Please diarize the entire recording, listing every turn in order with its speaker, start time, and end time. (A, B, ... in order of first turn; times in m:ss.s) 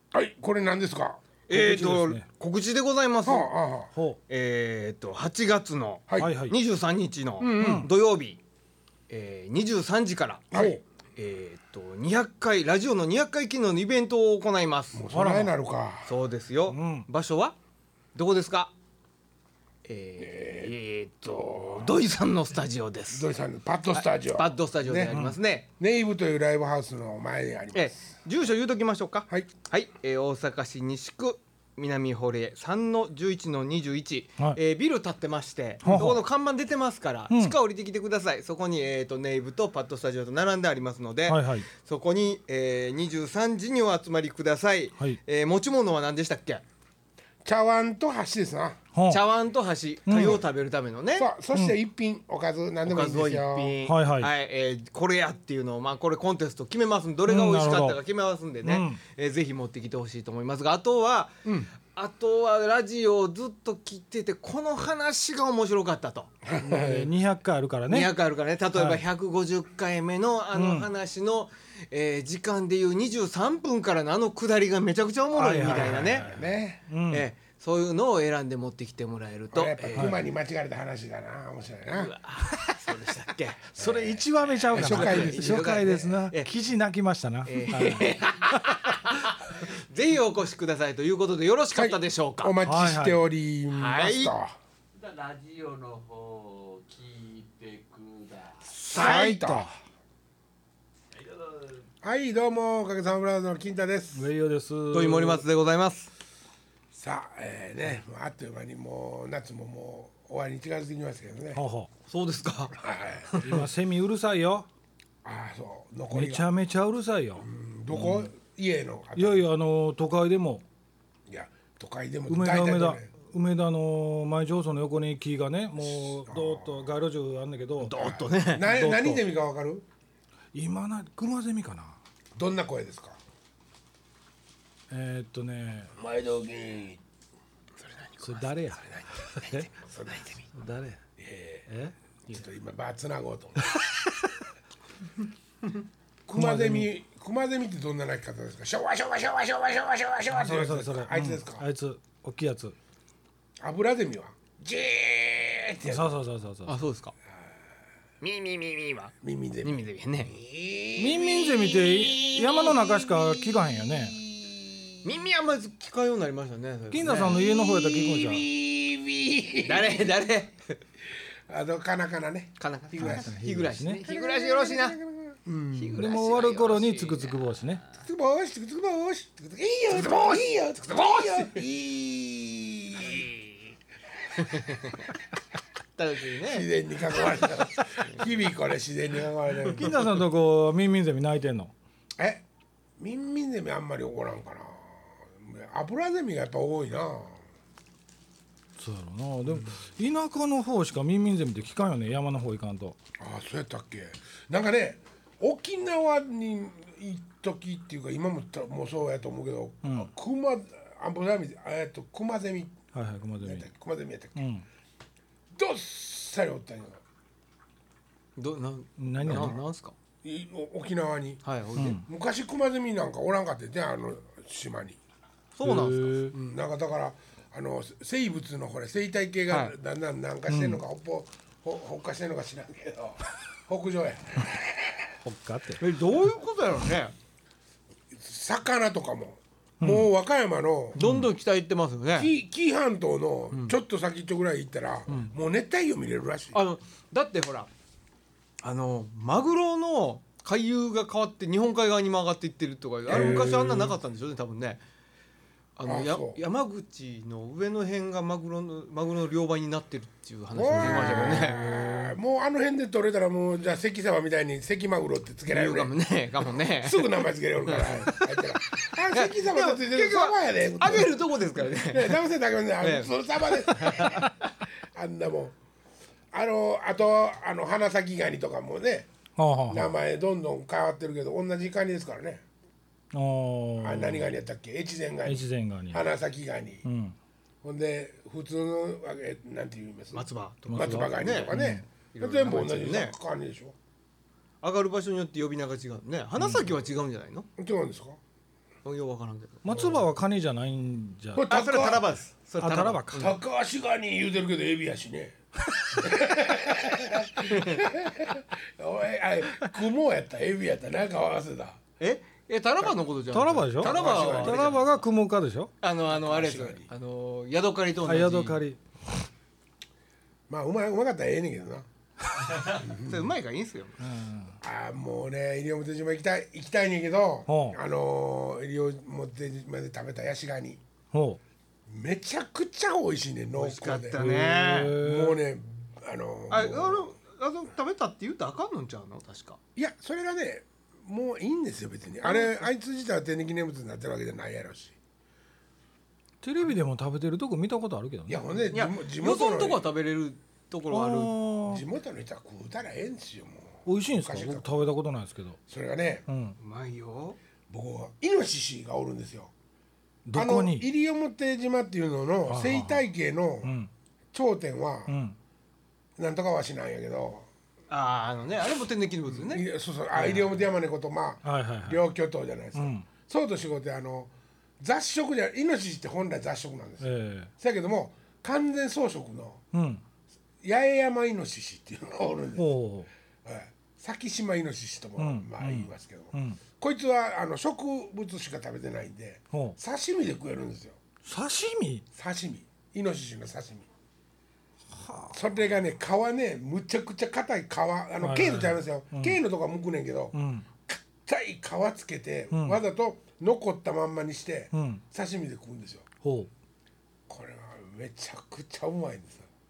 0:00.1-0:01.2 A
0:01.5-0:03.5 B
0:01.5-0:02.2 C
0:03.2-0:03.9 A
0:03.9-0:04.2 C
0:04.3-0:08.4 B
0:06.1-0:06.4 A
0:06.2-0:06.6 C
0:07.4-0:07.9 A
0:07.6-0:07.9 C
0:09.1-0:10.6 B
0:10.5-0:10.8 A
0:10.5-0:10.8 C
0:11.2-0:15.0 B
0:14.9-0:16.1 A
0:15.1-0:15.5 C
0:16.0-0:17.6 B
0:16.7-0:17.1 C
0:18.1-0:18.7 B
0:19.8-0:23.2 B
0:20.2-0:22.0 A
0:23.1-0:25.2 A
0:23.9-0:25.7 B
0:25.1-0:25.4 C
0:25.8-0:28.1 A
0:27.7-0:46.6 B
0:35.8-0:36.2 C
0:37.3-0:37.6 C
0:41.3-0:41.7 C
0:47.4-0:48.8 A
0:48.9-0:49.3 C
0:49.1-0:51.3 B
0:50.0-0:50.4 C
0:51.2-0:53.8 A
0:52.9-1:06.3 B
0:53.8-0:54.3 C
0:57.2-0:58.0 C
0:58.6-0:59.0 C
1:01.4-1:01.7 A
1:06.4-1:07.1 A
1:06.6-1:08.1 C
1:07.9-1:16.3 B
1:08.7-1:09.0 C
1:10.5-1:10.9 C
1:15.3-1:17.2 C
1:15.7-1:16.8 A
1:17.1-1:20.2 B
1:19.5-1:22.1 A
1:19.9-1:20.2 C
1:21.9-1:23.7 B
1:23.8-1:24.2 A
1:23.8-1:28.9 C
1:24.7-1:25.6 A
1:24.7-1:26.5 B
1:27.4-1:32.5 B
1:31.7-1:34.5 A
1:32.6-1:33.2 C
1:33.7-1:34.3 B
1:34.9-1:38.7 D
1:38.8-1:39.7 B
1:38.8-1:39.7 A
1:38.9-1:39.7 C
1:41.2-1:41.8 D
1:42.0-1:44.3 A
1:44.1-1:45.4 C
1:44.9-1:46.1 B
1:46.9-1:51.6 A
1:51.5-1:51.9 C
1:52.1-1:52.8 B
1:52.8-1:53.6 A
1:53.3-1:53.6 B
1:53.4-1:54.7 C
1:55.2-1:56.5 A
1:56.1-1:58.3 C
1:57.4-1:59.4 A
1:59.1-2:00.6 C
2:01.3-2:03.1 A
2:02.3-2:09.2 C
2:05.8-2:06.9 A
2:07.8-2:08.7 B
2:08.4-2:09.8 A
2:10.5-2:12.0 C
2:12.4-2:13.2 A
2:14.9-2:15.9 C
2:15.9-2:17.0 A
2:17.8-2:18.6 B
2:18.2-2:19.7 C
2:18.9-2:20.4 A
2:20.5-2:21.0 C
2:21.2-2:21.6 A
2:21.7-2:21.9 C
2:22.3-2:23.7 A
2:26.3-2:31.6 A
2:26.3-2:26.9 C
2:30.3-2:32.7 C
2:33.6-2:36.1 A
2:35.8-2:36.7 C
2:36.6-2:37.1 B
2:38.2-2:40.3 B
2:39.2-2:44.8 A
2:41.0-2:44.2 C
2:45.0-2:47.4 B
2:46.9-2:48.4 C
2:47.1-2:50.2 A
2:49.6-2:50.8 B
2:51.5-2:53.4 A
2:52.6-2:55.0 B
2:53.0-2:54.0 C
2:54.0-2:56.0 A
2:55.7-2:57.3 B
2:56.0-2:57.8 C
2:58.0-3:03.4 A
2:59.9-3:01.6 B
3:04.4-3:05.0 B
3:06.0-3:06.7 B
3:06.4-3:10.0 A
3:09.7-3:11.7 C
3:12.2-3:12.4 A
3:13.0-3:17.4 A
3:18.8-3:23.0 C
3:23.2-3:32.8 A
3:29.8-3:30.1 C
3:32.9-3:33.7 C
3:33.4-3:34.4 A
3:34.4-3:34.6 C
3:35.5-3:37.0 A
3:38.4-3:39.9 B
3:39.0-3:39.6 C
3:39.3-3:39.5 A
3:40.2-3:41.4 A
3:41.4-3:42.0 B
3:41.8-3:42.0 C
3:42.0-3:45.0 A
3:45.6-3:46.2 B
3:45.6-3:46.4 C
3:46.3-3:55.1 A
3:49.5-3:49.7 B
3:50.5-3:50.8 C
3:55.2-3:55.8 C
3:55.8-3:57.1 B
3:58.1-4:01.0 A
3:59.8-4:00.1 C
4:00.9-4:02.3 B
4:01.0-4:01.3 C
4:02.2-4:06.6 A
4:06.5-4:07.7 B
4:08.6-4:14.8 B
4:13.1-4:14.0 C
4:13.1-4:13.7 A
4:15.8-4:22.0 B
4:15.8-4:16.4 A
4:20.5-4:25.9 A
4:21.0-4:21.4 C
4:25.5-4:27.1 B
4:26.8-4:31.2 A
4:27.6-4:32.2 B
4:31.8-4:34.3 A
4:32.8-4:34.3 B
4:34.9-4:35.6 A
4:36.3-4:39.1 A
4:39.4-4:39.9 C
4:39.7-4:42.4 A
4:43.1-4:44.3 C
4:43.8-4:46.8 A
4:45.2-4:46.0 C
4:46.8-4:47.2 C
4:47.6-4:53.7 A
4:50.1-4:51.5 B
4:50.7-4:51.8 C
4:52.1-4:53.1 B
4:54.6-4:57.5 B
4:56.4-4:56.8 C
4:57.6-4:58.2 A
4:58.8-4:59.6 B
4:59.6-5:01.4 C
4:59.7-5:00.0 A
5:01.4-5:02.2 A
5:01.5-5:03.4 B
5:02.6-5:03.3 C
5:03.1-5:05.3 A
5:06.0-5:11.8 A
5:07.5-5:07.8 B
5:12.0-5:15.0 B
5:13.3-5:15.7 C
5:13.8-5:14.8 A
5:15.8-5:18.6 B
5:16.1-5:16.8 A
5:18.0-5:19.3 C
5:20.5-5:21.8 A
5:22.6-5:24.0 B
5:22.7-5:23.2 A
5:24.0-5:24.6 C
5:24.6-5:30.8 A
5:27.5-5:27.8 C
5:31.1-5:31.4 C
5:31.9-5:34.2 A
5:33.5-5:35.0 B
5:34.1-5:35.4 C
5:34.8-5:37.1 A
5:36.5-5:39.6 B
5:39.8-5:44.9 A
5:42.2-5:42.5 B
5:46.4-5:48.5 C
5:48.3-5:49.8 A
5:48.7-5:51.4 B
5:50.9-5:51.8 C
5:51.6-5:54.8 A
5:53.8-5:55.6 C
5:55.7-5:56.2 A
5:56.3-5:56.6 C
5:56.6-5:57.4 B
5:57.7-5:59.5 A
6:00.2-6:00.9 C
6:00.3-6:03.7 A
6:02.5-6:03.0 C
6:03.6-6:03.9 C
6:04.3-6:05.1 A
6:05.1-6:05.4 C
6:06.2-6:07.5 A
6:07.9-6:09.6 B
6:09.3-6:19.6 A
6:11.4-6:12.0 C
6:12.7-6:13.0 C
6:17.0-6:17.5 C
6:19.7-6:20.0 C
6:20.6-6:22.7 A
6:22.6-6:23.1 C
6:23.4-6:31.0 A
6:25.2-6:26.6 C
6:31.2-6:32.0 C
6:32.1-6:33.9 A
6:34.9-6:35.4 C
6:35.3-6:40.4 A
6:38.2-6:39.4 C
6:40.3-6:40.7 C
6:40.9-6:46.0 A
6:42.5-6:42.8 C
6:44.7-6:45.0 C
6:46.2-6:46.5 C
6:47.3-6:49.5 A